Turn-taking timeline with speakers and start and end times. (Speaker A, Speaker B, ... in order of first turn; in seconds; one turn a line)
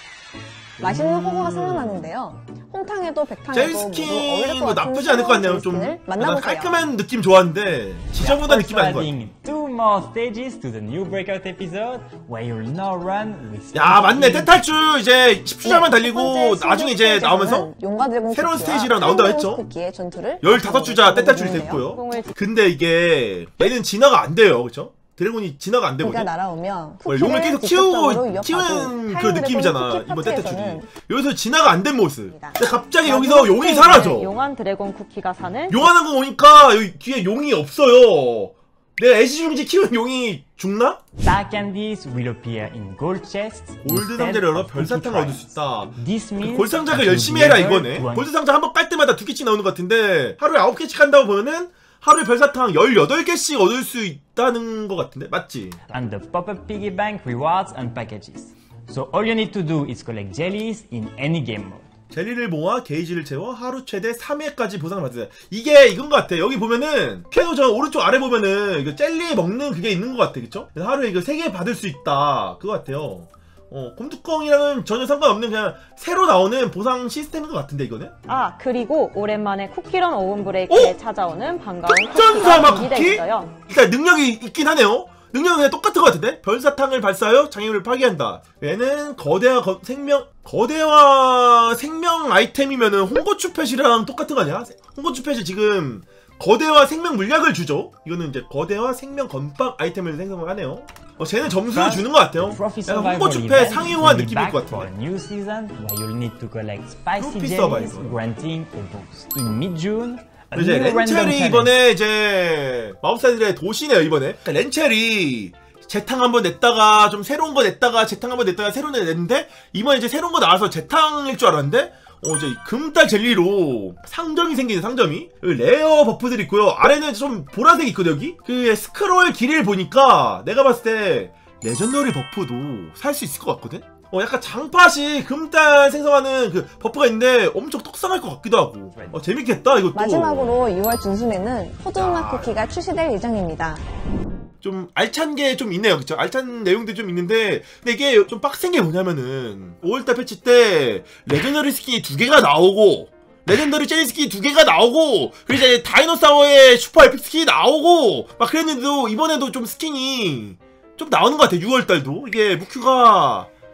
Speaker A: 0.8-2.1
Speaker B: 0.8-6.9
Speaker A: 3.5-9.1
Speaker C: 8.2-14.8
Speaker A: 13.7-17.7
Speaker B: 15.6-21.9
Speaker A: 18.3-19.6
Speaker A: 20.4-26.3
Speaker D: 21.9-22.3
Speaker B: 26.0-30.9
Speaker A: 27.1-34.3
Speaker B: 32.3-33.5
Speaker D: 33.4-35.9
Speaker A: 35.7-41.0
Speaker C: 41.2-48.3
Speaker A: 43.8-55.8
Speaker C: 55.9-61.9
Speaker A: 62.1-78.1
Speaker D: 78.3-83.5
Speaker A: 80.7-81.0
Speaker A: 82.0-104.9
Speaker C: 101.7-111.8
Speaker A: 107.2-108.2
Speaker A: 110.5-140.6
Speaker C: 138.9-139.2
Speaker B: 139.9-143.8
Speaker A: 141.9-142.5
Speaker A: 144.6-163.5